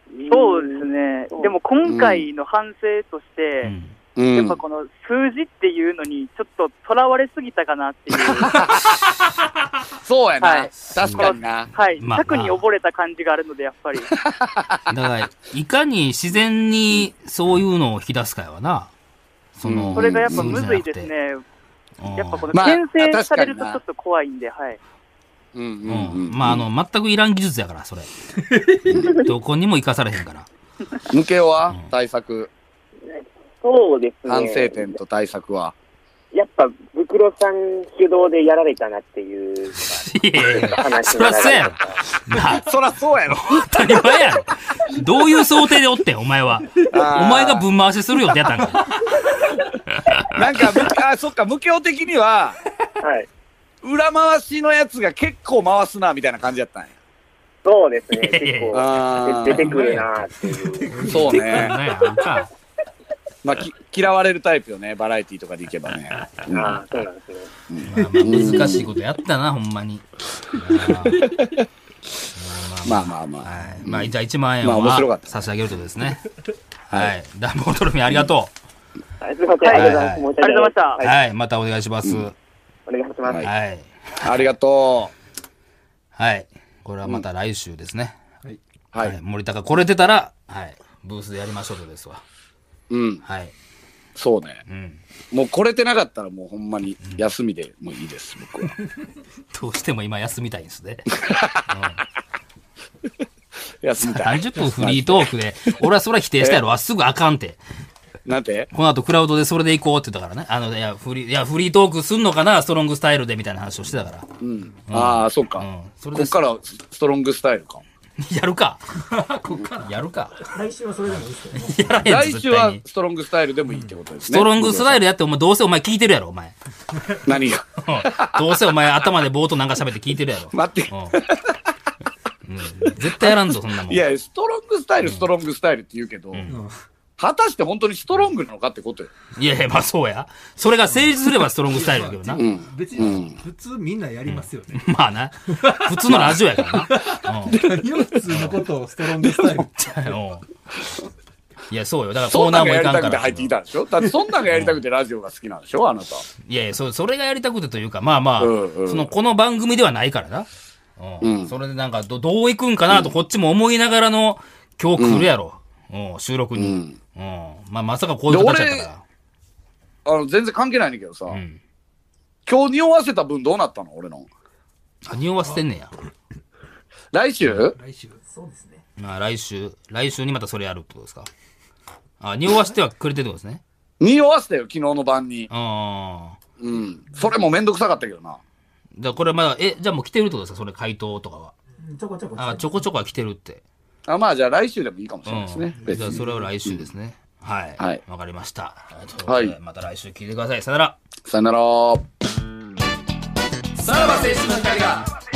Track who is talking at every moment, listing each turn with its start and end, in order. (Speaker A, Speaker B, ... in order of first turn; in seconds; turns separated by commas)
Speaker A: 0.1-1.5, Speaker B: 0.3-3.7, Speaker C: 1.9-2.3, Speaker D: 3.6-4.0, Speaker C: 4.2-4.6, Speaker B: 4.3-8.8, Speaker C: 8.3-8.9, Speaker C: 10.0-11.7, Speaker B: 10.4-14.1, Speaker D: 10.8-12.6, Speaker C: 14.3-14.8, Speaker D: 14.9-18.9, Speaker D: 19.6-21.1, Speaker C: 19.6-20.6, Speaker B: 19.9-21.4, Speaker D: 22.0-22.5, Speaker B: 22.1-24.8, Speaker C: 22.5-23.8, Speaker C: 25.6-26.7, Speaker D: 25.9-28.1, Speaker C: 28.9-29.2, Speaker D: 28.9-30.5, Speaker C: 31.1-32.5, Speaker A: 33.1-35.0, Speaker C: 34.3-35.8, Speaker A: 36.3-42.0, Speaker D: 40.0-42.7, Speaker C: 42.4-44.0, Speaker D: 43.3-49.0, Speaker C: 46.9-47.7, Speaker D: 49.9-50.9, Speaker C: 50.3-52.6, Speaker A: 53.0-53.3, Speaker C: 53.8-57.0, Speaker A: 57.6-61.1, Speaker D: 58.1-58.8, Speaker C: 58.7-59.8, Speaker D: 59.4-62.5, Speaker E: 60.9-61.8, Speaker C: 61.0-61.8, Speaker C: 63.4-66.8, Speaker A: 66.5-67.5, Speaker C: 67.7-68.9, Speaker D: 67.8-71.3, Speaker E: 68.0-68.8, Speaker C: 71.0-71.7, Speaker D: 72.3-76.2, Speaker C: 72.8-75.5, Speaker D: 76.9-78.5, Speaker A: 79.2-81.1, Speaker B: 79.6-81.0, Speaker D: 79.7-80.3, Speaker D: 81.0-82.3, Speaker A: 82.9-83.5, Speaker C: 83.3-83.5, Speaker D: 83.4-84.5, Speaker C: 84.2-85.1, Speaker D: 86.2-88.2, Speaker D: 89.0-92.2, Speaker C: 92.9-93.2, Speaker D: 93.2-93.5, Speaker C: 94.2-94.6, Speaker D: 94.7-95.0, Speaker C: 95.3-98.7, Speaker D: 99.5-102.0, Speaker C: 101.2-101.7, Speaker C: 103.8-105.3, Speaker D: 104.0-107.6, Speaker C: 108.3-108.7, Speaker D: 108.7-114.3, Speaker C: 114.4-117.8, Speaker D: 114.9-116.4, Speaker D: 118.2-119.0, Speaker E: 119.1-120.0, Speaker D: 119.8-120.4, Speaker F: 120.5-122.0, Speaker D: 121.1-122.8, Speaker C: 122.0-125.0, Speaker D: 124.2-126.5, Speaker C: 127.2-128.4, Speaker D: 127.8-131.2, Speaker C: 130.5-131.6, Speaker D: 132.4-134.0, Speaker C: 133.2-136.5, Speaker D: 135.0-135.3, Speaker D: 136.3-136.6, Speaker C: 137.2-139.1, Speaker D: 139.4-142.5, Speaker E: 141.7-144.9, Speaker C: 142.3-143.4, Speaker D: 143.0-143.2, Speaker D: 144.3-147.7, Speaker E: 145.5-150.2, Speaker C: 146.1-146.4, Speaker D: 148.3-148.6, Speaker D: 149.6-150.5, Speaker D: 151.7-153.5, Speaker C: 152.3-156.3, Speaker D: 154.5-154.8, Speaker D: 156.4-160.5, Speaker C: 158.4-159.1, Speaker D: 161.0-169.0, Speaker C: 161.2-161.5, Speaker C: 162.9-163.2, Speaker C: 165.0-165.3, Speaker C: 166.6-167.0, Speaker C: 168.3-168.9, Speaker C: 170.1-171.4, Speaker D: 171.3-171.6, Speaker C: 172.5-174.3, Speaker D: 175.0-175.9, Speaker C: 177.1-177.8, Speaker E: 177.8-178.2, Speaker F: 178.3-178.8, Speaker D: 179.0-181.3, Speaker D: 182.2-183.6, Speaker C: 184.0-185.5, Speaker D: 185.5-186.4, Speaker C: 186.6-188.4, Speaker D: 189.0-191.5, Speaker F: 191.8-192.7, Speaker D: 192.3-193.6, Speaker C: 194.1-196.9, Speaker D: 195.3-201.0, Speaker E: 195.8-196.2, Speaker C: 199.3-199.6, Speaker C: 201.2-202.0, Speaker C: 203.8-205.0